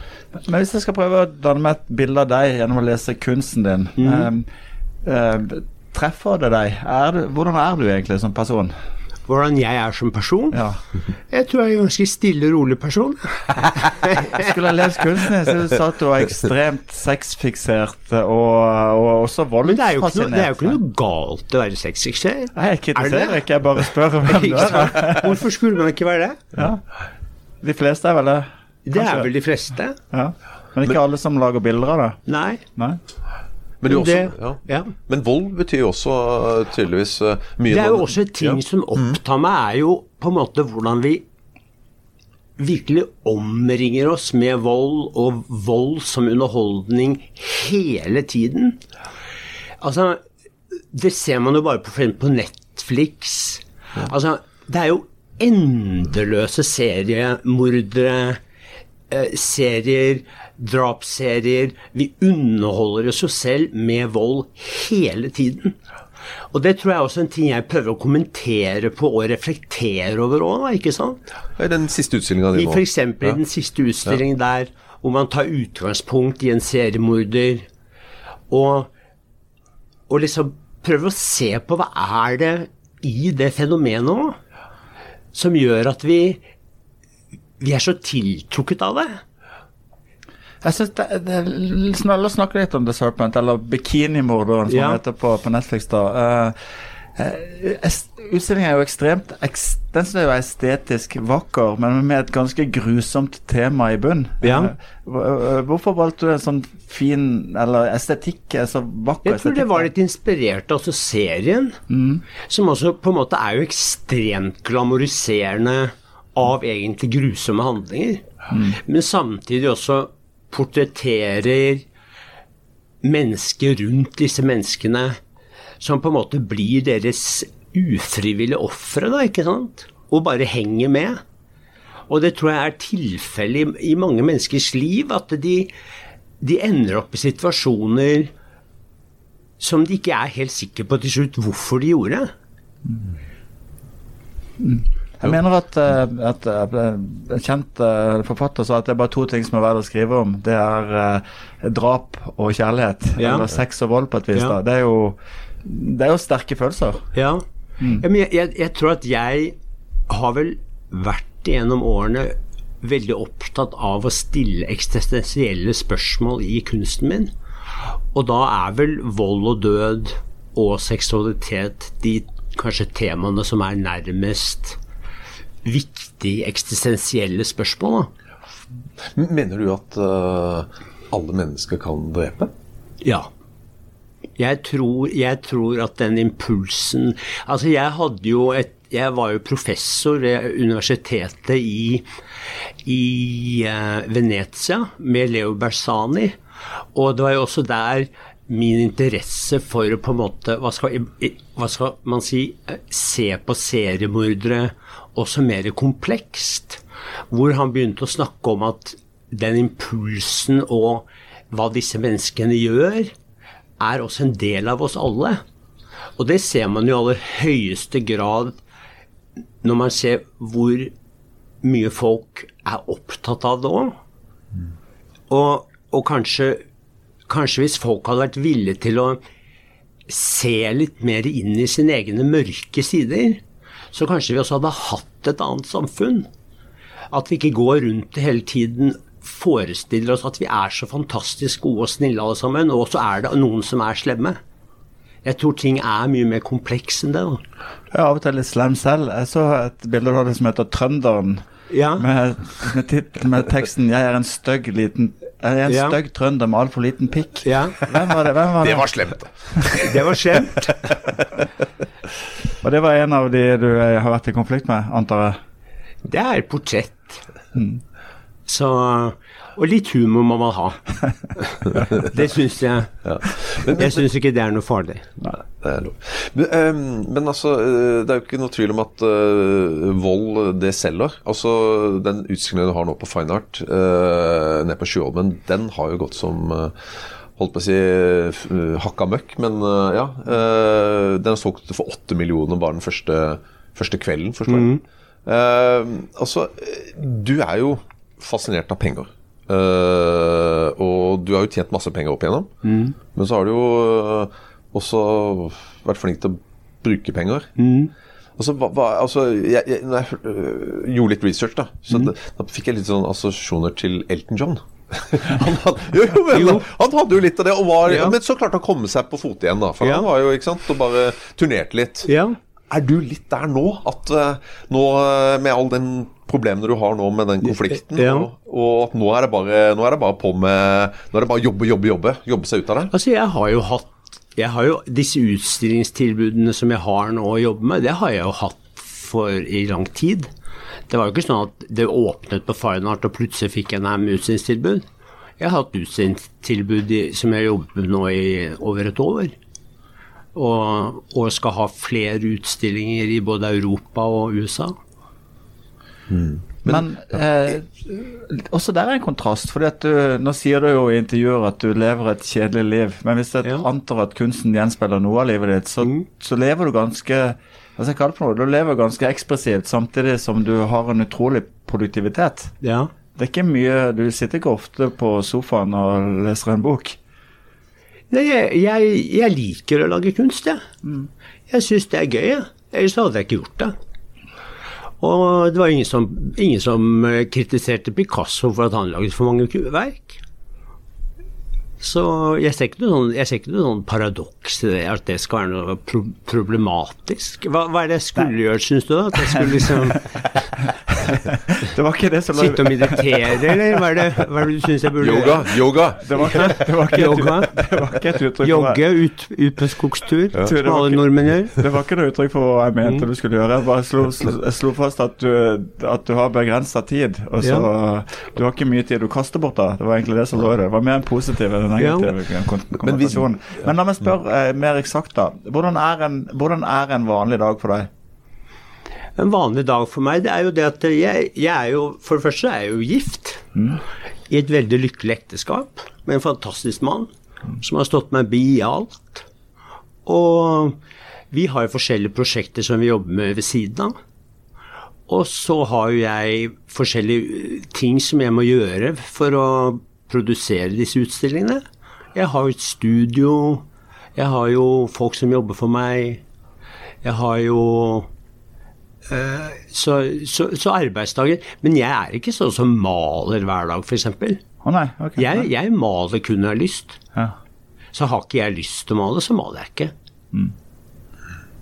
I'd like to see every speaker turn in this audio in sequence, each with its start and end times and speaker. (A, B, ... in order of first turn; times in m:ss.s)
0:00.4-0:04.5 A
0:04.0-0:04.3 B
0:05.0-0:08.7 A
0:09.3-0:10.6 B
0:10.5-0:10.8 A
0:11.3-0:14.5 B
0:14.3-0:20.8 A
0:19.6-0:23.4 B
0:22.5-0:25.4 A
0:24.2-0:26.5 B
0:26.6-0:26.8 A
0:27.6-0:29.3 A
0:28.8-0:30.0 B
0:30.1-0:32.2 A
0:32.3-0:32.6 B
0:33.8-0:39.2 C
0:33.9-0:34.9 B
0:37.7-0:41.2 B
0:42.6-0:48.8 B
0:49.8-0:50.2 B
0:50.9-0:58.4 B
0:59.1-1:05.8 B
1:06.5-1:11.2 B
1:11.6-1:13.4 C
1:12.5-1:17.6 B
1:18.5-1:18.9 B
1:20.1-1:24.4 B
1:25.3-1:26.4 B
1:27.6-1:29.2 B
1:30.6-1:36.6 A
1:34.7-1:35.0 B
1:37.1-1:49.9 A
1:44.4-1:44.7 B
1:49.2-1:51.8 B
1:51.9-1:52.2 A
1:52.4-2:01.8 B
1:58.5-1:58.8 A
2:03.0-2:05.2 B
2:05.8-2:11.2 B
2:12.1-2:15.7 B
2:16.4-2:18.3 B
2:19.6-2:22.3 B
2:24.6-2:37.0 A
2:33.2-2:33.4 B
2:37.1-2:37.4 B
2:37.9-2:39.6 B
2:40.1-2:47.3 B
2:48.1-2:54.8 B
2:55.6-2:58.1 B
2:59.1-3:02.5 C
3:03.0-3:03.3 B
3:04.4-3:12.1 B
3:12.8-3:16.4 B
3:16.9-3:33.1 B
3:33.8-3:35.4 B
3:36.2-3:38.6 B
3:39.6-3:40.9 B
3:41.6-3:43.9 B
3:45.3-3:46.6 B
3:47.3-3:49.2 B
3:50.1-3:53.4 B
3:53.9-3:56.3 B
3:57.1-4:04.4 B
4:05.2-4:07.4 B
4:07.9-4:11.4 A
4:11.7-4:12.0 B
4:12.0-4:19.0 A
4:15.7-4:16.0 B
4:17.4-4:17.8 B
4:18.6-4:20.1 C
4:19.8-4:20.9 B
4:20.7-4:20.9 C
4:22.6-4:25.4 A
4:26.0-4:27.2 B
4:27.5-4:27.8 A
4:28.4-4:30.8 B
4:31.3-4:33.0 B
4:33.0-4:34.0 C
4:33.6-4:35.2 B
4:35.6-5:02.5 C
4:54.5-4:54.8 B
5:02.6-5:03.0 B
5:03.1-5:07.6 C
5:07.6-5:07.9 B
5:08.4-5:22.1 C
5:16.3-5:16.6 B
5:17.9-5:18.1 B
5:19.8-5:20.1 B
5:22.1-5:22.4 B
5:22.7-5:32.9 C
5:27.4-5:28.3 B
5:32.9-5:40.3 B
5:40.9-5:44.8 B
5:45.4-5:49.3 B
5:50.3-5:54.7 B
5:56.1-5:56.8 C
5:56.6-6:12.5 A
6:12.6-6:12.9 B
6:13.2-6:17.0 A
6:18.1-6:20.6 B
6:21.5-6:23.7 B
6:25.0-6:30.2 B
6:31.8-6:40.1 B
6:39.3-6:40.0 A
6:40.9-6:43.8 A
6:42.3-6:45.6 B
6:45.0-6:46.6 C
6:46.0-6:48.8 A
6:46.2-6:47.5 B
6:48.4-6:51.5 B
6:50.4-7:07.9 A
6:57.4-6:57.7 B
7:01.8-7:02.1 B
7:02.8-7:03.7 C
7:09.2-7:13.5 B
7:13.5-7:13.8 A
7:14.3-7:19.2 B
7:20.0-7:20.8 B
7:21.3-7:24.0 B
7:25.1-7:31.6 B
7:32.1-7:33.6 B
7:34.2-7:36.2 B
7:37.0-7:38.1 B
7:39.1-7:44.4 B
7:44.6-7:45.5 A
7:45.2-7:47.0 B
7:47.9-7:49.9 B